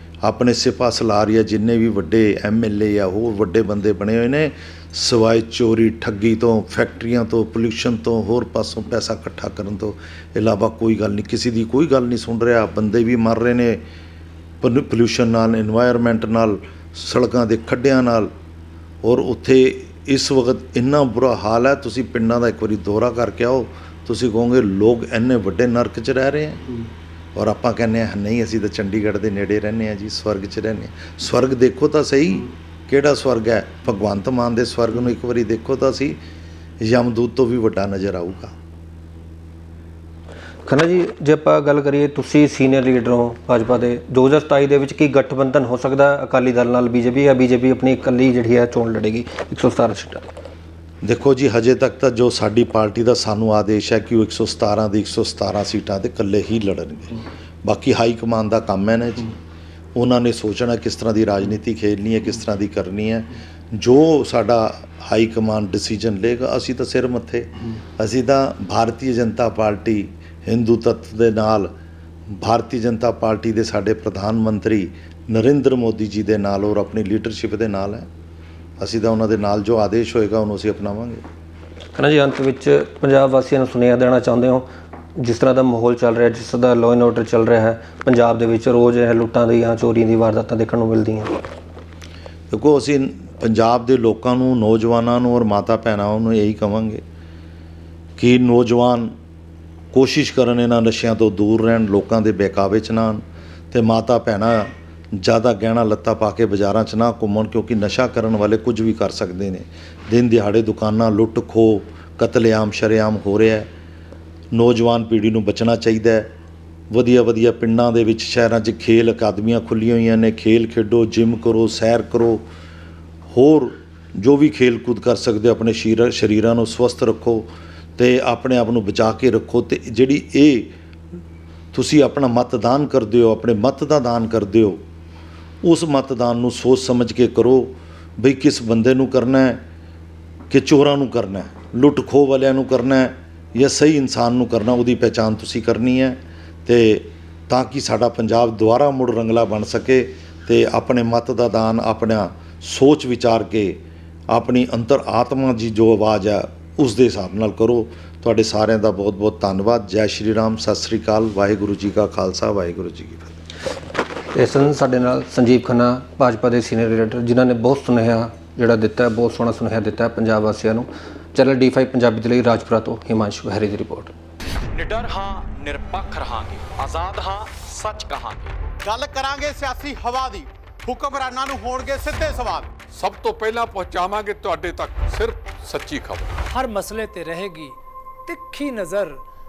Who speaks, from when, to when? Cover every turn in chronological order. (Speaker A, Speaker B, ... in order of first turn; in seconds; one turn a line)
Speaker A: 0.2-13.8
Speaker A: 14.6-18.3
Speaker A: 19.0-26.6
Speaker A: 27.3-36.2
Speaker A: 36.8-38.5
Speaker B: 40.7-50.2
Speaker A: 51.0-59.3
Speaker A: 59.9-71.7
Speaker A: 72.3-78.1
Speaker A: 78.8-81.2
Speaker B: 82.0-84.6
Speaker B: 85.2-91.4
Speaker A: 92.5-97.0
Speaker A: 98.2-99.1
Speaker A: 99.9-113.7
Speaker A: 114.5-116.3
Speaker A: 116.9-122.4
Speaker A: 123.3-130.7
Speaker A: 131.7-134.8
Speaker A: 135.6-139.6
Speaker A: 140.5-163.3
Speaker B: 164.3-174.1
Speaker C: 174.7-178.6
Speaker D: 178.8-182.7
Speaker E: 182.8-186.3
Speaker F: 186.5-187.7
Speaker F: 188.3-189.2